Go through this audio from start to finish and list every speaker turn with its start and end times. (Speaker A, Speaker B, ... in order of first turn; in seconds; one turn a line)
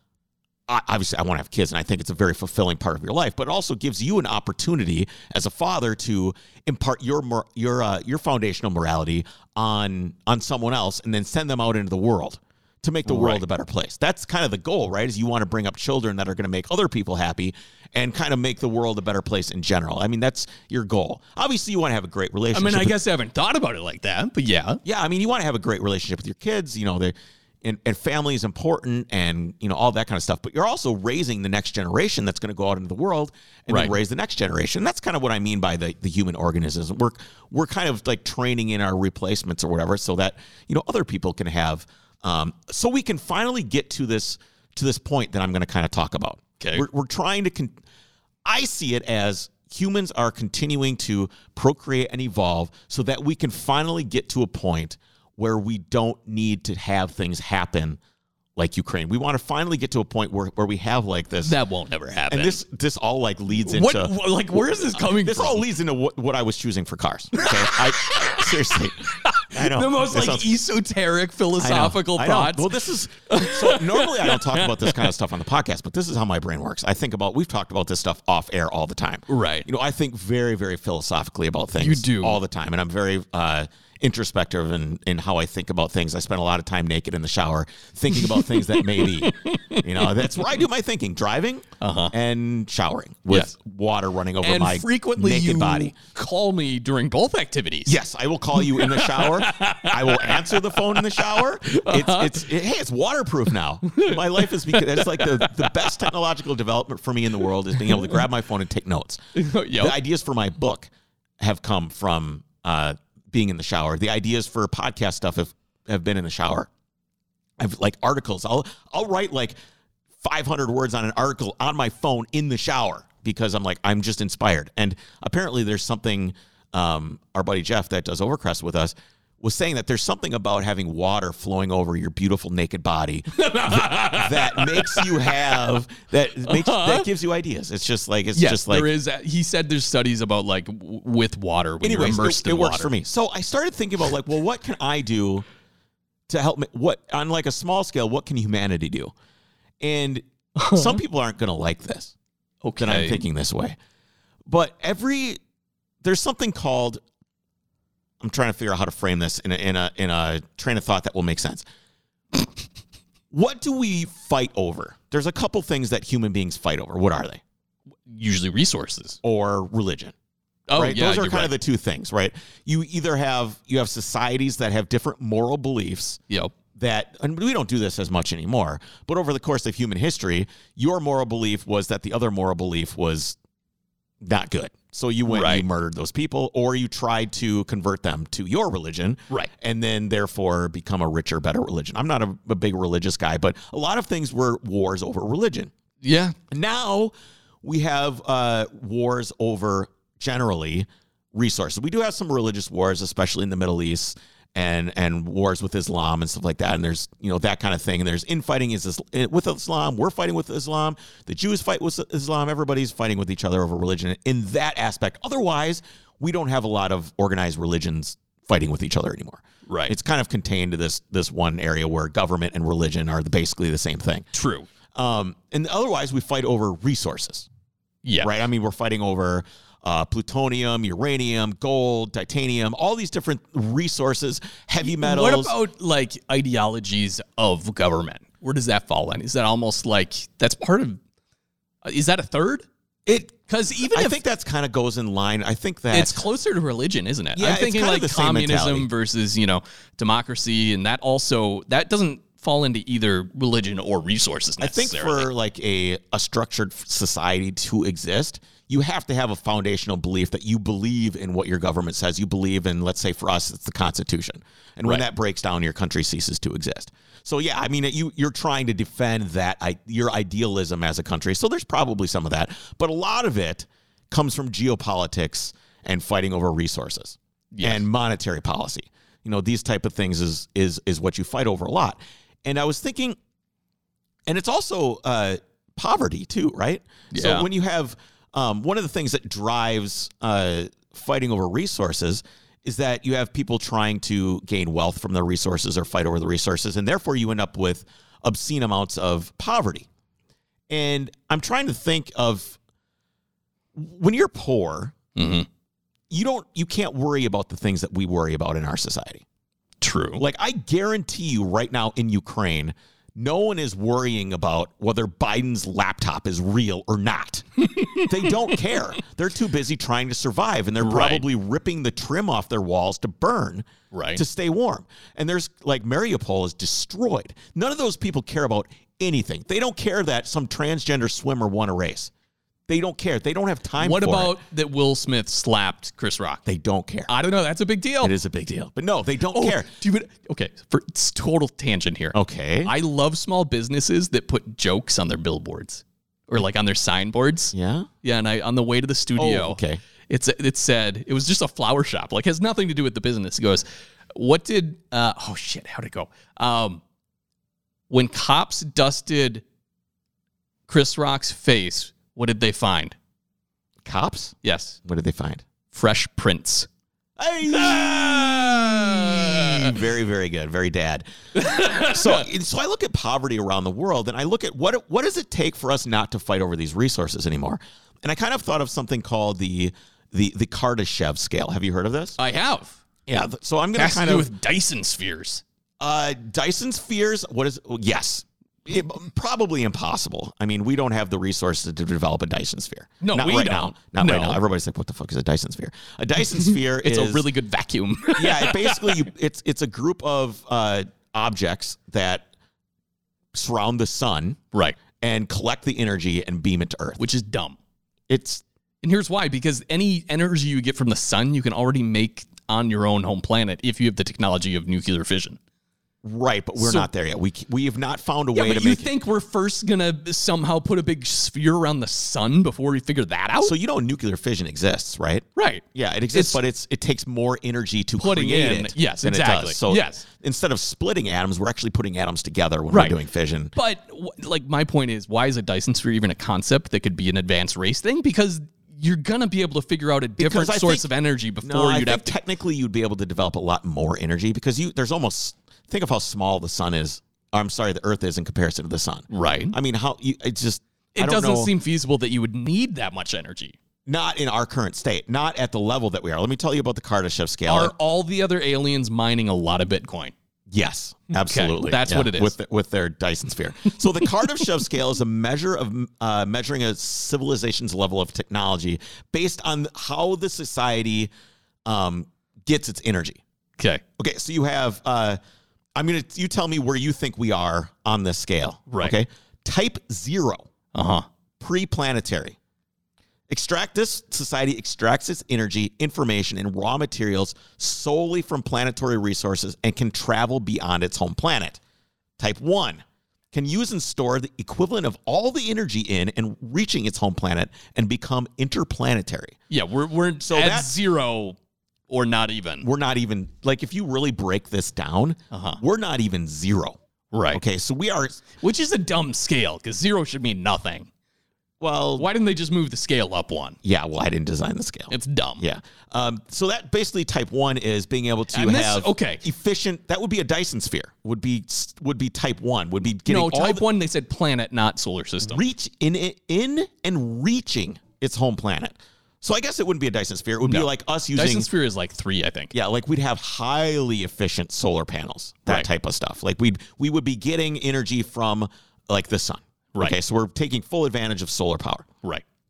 Speaker A: 0.7-22.9
Speaker B: 13.1-13.4
Speaker B: 22.5-24.8
Speaker A: 24.8-47.8
Speaker B: 33.7-33.9
Speaker B: 46.6-46.9
Speaker A: 48.4-58.0
Speaker A: 58.5-61.5
Speaker B: 61.4-62.6
Speaker A: 62.3-70.5
Speaker B: 63.6-65.7
Speaker B: 67.3-72.7
Speaker A: 71.6-95.9
Speaker B: 73.3-75.1
Speaker B: 79.3-79.7
Speaker B: 81.8-82.4
Speaker B: 88.2-90.6
Speaker B: 91.8-92.1
Speaker B: 94.4-98.0
Speaker A: 97.8-116.7
Speaker B: 98.5-102.5
Speaker B: 103.8-106.0
Speaker B: 107.9-108.2
Speaker B: 109.3-110.0
Speaker A: 117.6-119.5
Speaker A: 120.2-138.9
Speaker B: 133.3-135.6
Speaker B: 136.4-137.1
Speaker B: 138.3-142.9
Speaker A: 141.8-145.4
Speaker A: 146.3-149.1
Speaker A: 149.8-152.1
Speaker B: 150.6-151.0
Speaker B: 152.6-153.2
Speaker A: 152.8-153.8
Speaker A: 154.4-155.4
Speaker A: 156.0-157.0
Speaker A: 158.2-161.6
Speaker A: 163.3-167.4
Speaker B: 168.1-169.2
Speaker A: 169.2-170.1
Speaker B: 170.7-171.5
Speaker A: 170.7-176.2
Speaker B: 176.3-176.5
Speaker A: 176.7-183.4
Speaker A: 184.2-195.7
Speaker B: 185.3-185.6
Speaker B: 196.0-196.3
Speaker A: 196.5-197.1
Speaker A: 197.6-224.3
Speaker B: 219.7-219.9
Speaker B: 224.3-224.7
Speaker A: 224.9-227.5
Speaker B: 228.0-228.3
Speaker A: 228.2-235.5
Speaker B: 234.8-241.0
Speaker B: 241.8-242.7
Speaker A: 243.1-246.2
Speaker B: 243.5-244.2
Speaker B: 245.9-255.3
Speaker A: 247.3-248.9
Speaker A: 254.6-283.1
Speaker B: 277.5-277.8
Speaker A: 284.3-299.9
Speaker B: 287.1-287.4
Speaker A: 300.7-302.6
Speaker A: 303.7-304.9
Speaker B: 305.1-305.5
Speaker A: 306.1-309.2
Speaker B: 309.8-310.2
Speaker A: 310.2-332.1
Speaker B: 317.6-318.6
Speaker B: 320.8-321.2
Speaker B: 323.9-324.2
Speaker A: 332.7-334.4
Speaker B: 333.8-336.4
Speaker A: 336.4-337.1
Speaker B: 337.1-338.1
Speaker A: 338.0-339.7
Speaker B: 339.3-356.8
Speaker A: 342.1-342.7
Speaker A: 347.5-347.9
Speaker A: 349.2-349.8
Speaker B: 357.9-359.4
Speaker B: 360.7-362.9
Speaker A: 363.8-365.4
Speaker B: 364.4-364.8
Speaker B: 365.7-366.7
Speaker A: 367.2-382.2
Speaker B: 367.5-369.7
Speaker B: 371.3-372.3
Speaker B: 382.2-382.8
Speaker A: 383.1-384.3
Speaker B: 383.7-385.4
Speaker A: 385.8-397.3
Speaker B: 393.0-394.4
Speaker B: 396.4-399.0
Speaker A: 398.1-402.3
Speaker A: 403.3-404.4
Speaker B: 404.5-404.8
Speaker A: 405.0-407.0
Speaker B: 407.0-407.6
Speaker A: 408.1-408.4
Speaker B: 408.8-415.4
Speaker A: 416.0-418.9
Speaker B: 416.6-416.9
Speaker B: 418.3-423.5
Speaker A: 423.4-433.5
Speaker B: 425.4-426.4
Speaker B: 428.0-430.0
Speaker B: 432.7-433.0
Speaker B: 433.5-442.1
Speaker A: 440.2-440.9
Speaker A: 441.4-451.5
Speaker B: 449.1-449.6
Speaker B: 450.9-453.6
Speaker A: 453.9-457.7
Speaker B: 457.5-460.1
Speaker A: 460.5-471.1
Speaker B: 461.1-462.3
Speaker A: 471.6-473.2
Speaker B: 473.6-473.8
Speaker A: 474.0-475.2
Speaker A: 475.8-480.5
Speaker B: 478.7-478.9
Speaker B: 480.7-481.1
Speaker A: 481.4-482.4
Speaker A: 483.3-491.6
Speaker A: 492.2-499.4
Speaker B: 499.5-501.4
Speaker A: 500.2-500.7
Speaker B: 501.9-502.6
Speaker A: 502.6-506.8
Speaker B: 505.3-505.6
Speaker B: 507.1-507.4
Speaker A: 507.3-508.2
Speaker B: 508.4-510.9
Speaker A: 511.6-512.1
Speaker B: 512.0-513.6
Speaker A: 513.6-523.6
Speaker B: 514.9-515.4
Speaker B: 518.3-519.2
Speaker B: 523.1-525.4
Speaker A: 525.2-531.5
Speaker B: 530.4-532.5
Speaker A: 532.5-541.9